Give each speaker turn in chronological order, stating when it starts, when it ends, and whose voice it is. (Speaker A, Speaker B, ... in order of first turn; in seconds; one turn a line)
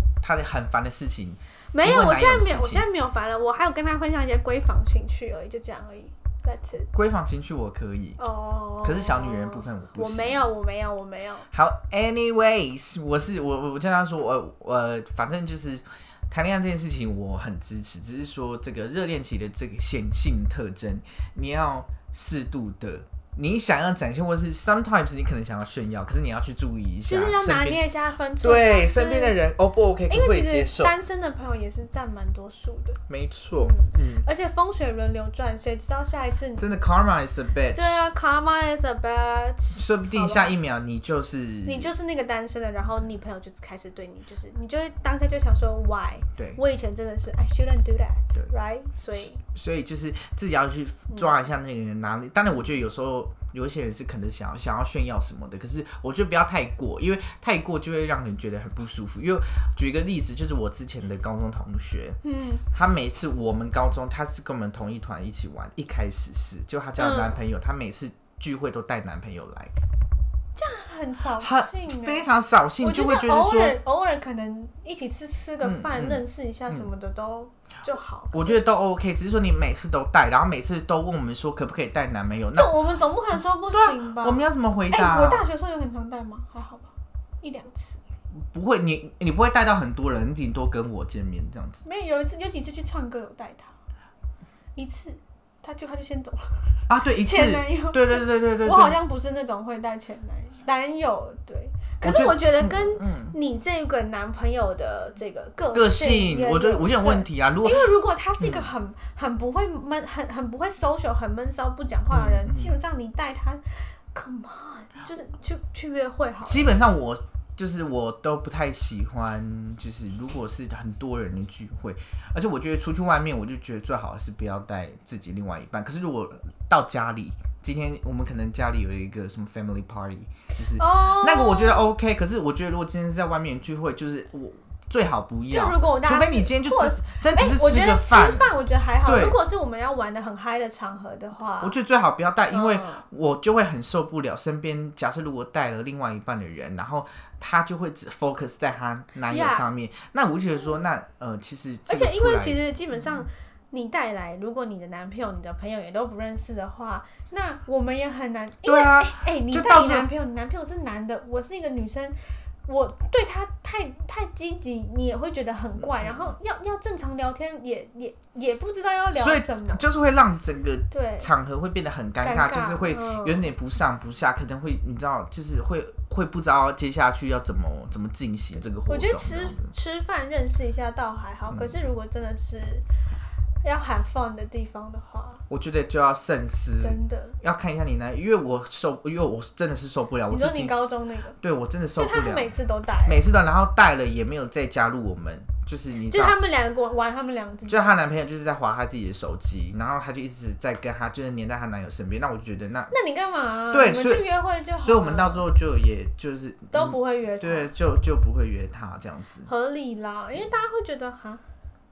Speaker A: 0.2-2.9
Speaker B: 1.7-6.9
Speaker A: 6.9-8.2
Speaker B: 8.2-11.5
Speaker A: 8.8-10.4
Speaker A: 11.5-27.8
Speaker B: 27.1-29.4
Speaker A: 28.4-30.9
Speaker B: 30.1-33.0
Speaker A: 33.1-34.3
Speaker B: 33.6-36.7
Speaker A: 36.6-38.0
Speaker B: 37.7-40.6
Speaker A: 39.8-41.9
Speaker B: 41.6-49.4
Speaker A: 49.1-62.2
Speaker B: 62.2-62.6
Speaker A: 62.7-69.7
Speaker B: 67.0-67.3
Speaker B: 70.6-72.2
Speaker A: 71.4-73.8
Speaker B: 72.8-78.6
Speaker A: 75.6-76.9
Speaker A: 78.3-82.7
Speaker B: 82.5-86.9
Speaker A: 83.7-85.5
Speaker B: 87.4-88.0
Speaker A: 88.3-91.8
Speaker B: 91.8-93.7
Speaker B: 94.8-116.7
Speaker A: 96.9-99.0
Speaker A: 102.0-103.4
Speaker A: 105.7-107.9
Speaker A: 108.4-108.7
Speaker A: 112.1-112.8
Speaker A: 116.5-138.5
Speaker B: 130.8-131.9
Speaker B: 135.5-141.8
Speaker A: 139.1-139.4
Speaker A: 141.6-152.6
Speaker B: 142.5-143.1
Speaker B: 149.3-149.7
Speaker B: 151.9-162.2
Speaker A: 158.7-160.1
Speaker B: 162.7-169.8
Speaker A: 165.8-166.4
Speaker A: 169.1-179.7
Speaker B: 170.9-171.3
Speaker B: 172.2-173.5
Speaker B: 178.9-182.8
Speaker A: 181.5-181.8
Speaker B: 183.6-185.4
Speaker A: 185.5-190.8
Speaker B: 186.8-187.4
Speaker B: 190.3-191.4
Speaker A: 191.4-192.5
Speaker B: 191.9-193.2
Speaker A: 193.1-196.3
Speaker B: 196.1-197.9
Speaker A: 197.7-202.9
Speaker B: 202.9-205.4
Speaker A: 203.7-204.3
Speaker A: 204.8-209.5
Speaker B: 206.7-207.7
Speaker B: 209.5-211.4